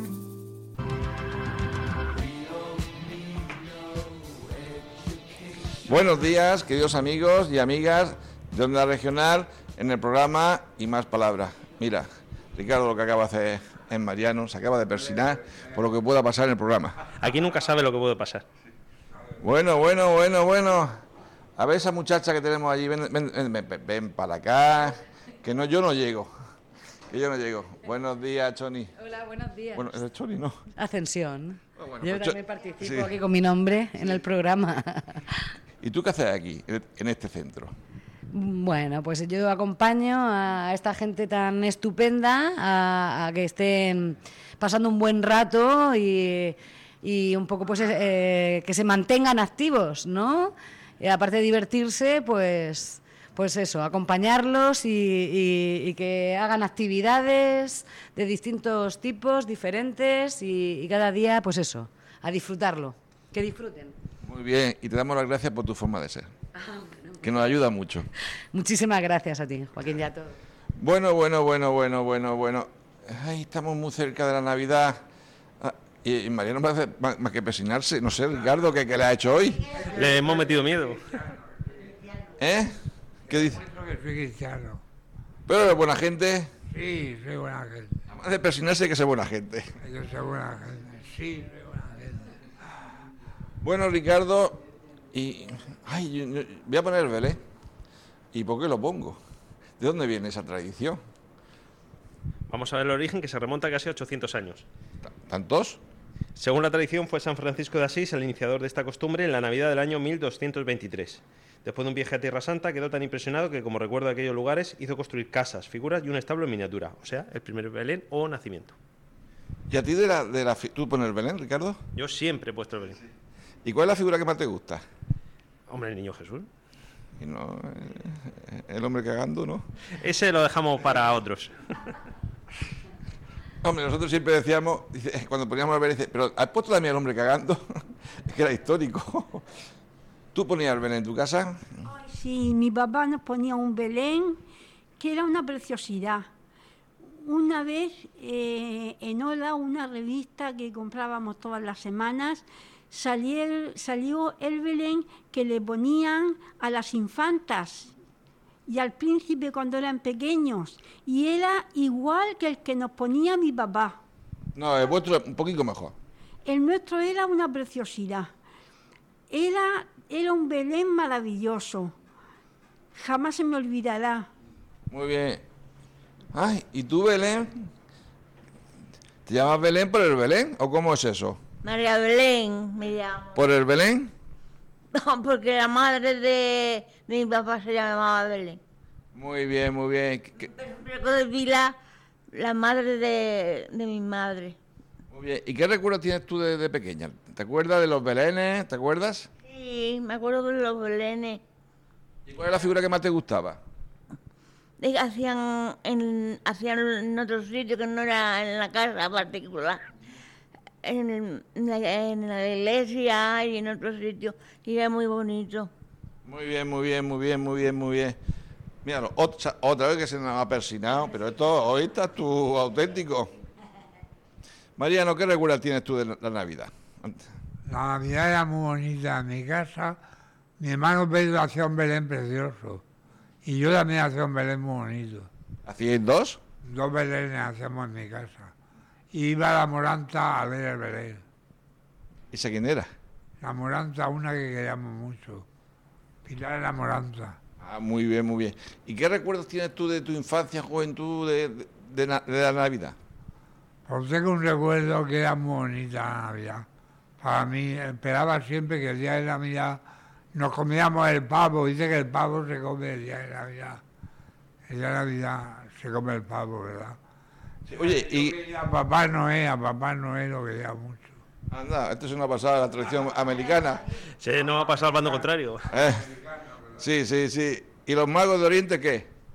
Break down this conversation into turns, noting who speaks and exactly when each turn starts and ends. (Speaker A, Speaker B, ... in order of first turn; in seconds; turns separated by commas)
Speaker A: 5.8-17.0, Speaker B: 17.2-18.4, Speaker A: 19.4-20.9, Speaker A: 21.6-26.3, Speaker A: 27.1-28.9, Speaker C: 29.0-29.9, Speaker A: 29.7-30.6, Speaker C: 30.7-35.5, Speaker A: 31.8-33.1, Speaker A: 35.8-37.7, Speaker C: 38.3-63.9, Speaker A: 64.2-66.3, Speaker C: 66.5-67.3, Speaker A: 67.2-68.1, Speaker C: 68.5-70.3, Speaker A: 70.8-75.0, Speaker A: 75.6-79.9, Speaker D: 79.8-80.3, Speaker B: 79.9-81.0, Speaker D: 81.1-81.4, Speaker A: 82.4-82.8, Speaker A: 83.3-83.6, Speaker D: 83.4-84.8, Speaker A: 85.5-86.5, Speaker D: 86.7-87.9, Speaker A: 88.1-89.7, Speaker D: 89.8-92.3, Speaker A: 93.6-94.6, Speaker A: 95.1-97.4, Speaker A: 98.3-99.2, Speaker A: 99.8-101.0, Speaker B: 102.5-104.6, Speaker A: 105.0-105.8, Speaker B: 106.3-118.8, Speaker A: 119.7-121.8, Speaker B: 121.9-123.0, Speaker A: 123.7-124.8, Speaker B: 125.7-126.5, Speaker A: 127.2-129.7, Speaker B: 130.0-131.9, Speaker A: 133.6-137.6, Speaker A: 138.3-139.4, Speaker A: 140.3-141.8, Speaker E: 141.9-144.4, Speaker E: 145.0-146.3, Speaker E: 147.2-157.9, Speaker E: 158.7-164.0, Speaker A: 164.5-165.9, Speaker E: 166.4-168.3, Speaker E: 169.3-171.9, Speaker E: 172.9-174.3, Speaker A: 174.9-175.4, Speaker A: 176.3-177.7, Speaker A: 179.2-181.4, Speaker F: 181.6-183.4, Speaker A: 183.3-184.1, Speaker F: 184.9-188.6, Speaker A: 189.1-190.5, Speaker F: 190.4-191.8, Speaker F: 192.3-194.6, Speaker A: 195.1-199.3, Speaker F: 199.4-201.4, Speaker A: 202.3-203.6, Speaker F: 204.8-209.8, Speaker F: 210.8-215.7, Speaker A: 216.2-218.2, Speaker A: 218.8-223.3, Speaker A: 224.8-227.2, Speaker D: 227.7-230.0, Speaker D: 230.6-232.8, Speaker D: 233.4-235.3, Speaker A: 235.7-236.4, Speaker D: 236.6-238.5, Speaker D: 239.1-241.2, Speaker A: 242.3-242.9, Speaker D: 243.4-245.4, Speaker D: 246.2-247.4, Speaker A: 247.6-252.9, Speaker D: 253.9-256.6, Speaker D: 257.2-259.8, Speaker D: 260.3-263.8, Speaker D: 264.7-267.0, Speaker A: 267.7-268.4, Speaker D: 267.8-271.2, Speaker A: 271.5-273.9, Speaker B: 274.2-275.7, Speaker A: 275.7-276.1, Speaker A: 276.8-279.1